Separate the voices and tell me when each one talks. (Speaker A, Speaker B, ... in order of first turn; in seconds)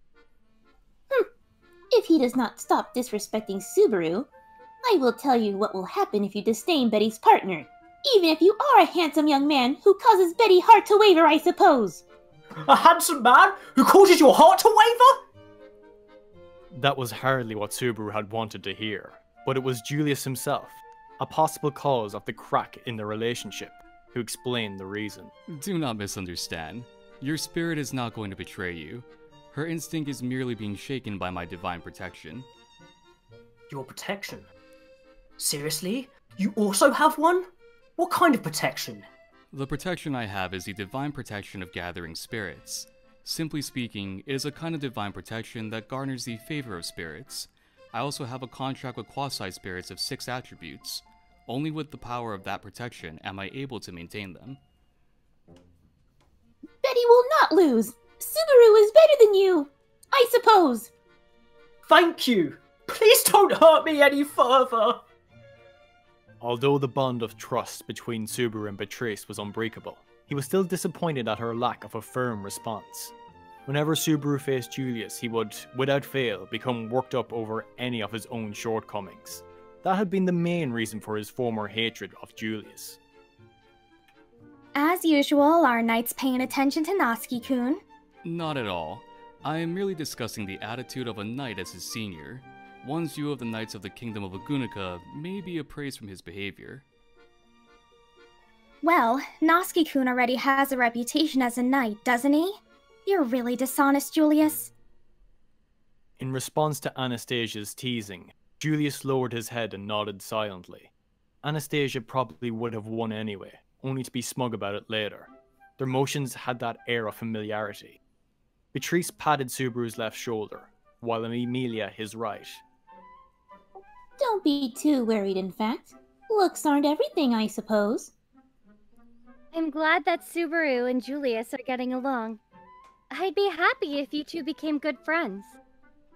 Speaker A: 1.9-4.3, 4.8-12.0, 56.8-60.9, 124.2-128.1
Speaker B: 12.6-15.2, 33.7-34.5, 35.4-39.1, 61.9-65.0
Speaker C: 16.7-25.3, 66.4-73.1, 73.7-83.0, 106.2-110.9, 111.4-118.0, 118.7-122.6
Speaker D: 25.5-32.5, 39.5-54.6, 88.2-96.8
Speaker E: 84.7-87.8, 98.8-104.7
Speaker F: 129.5-132.4, 133.1-135.6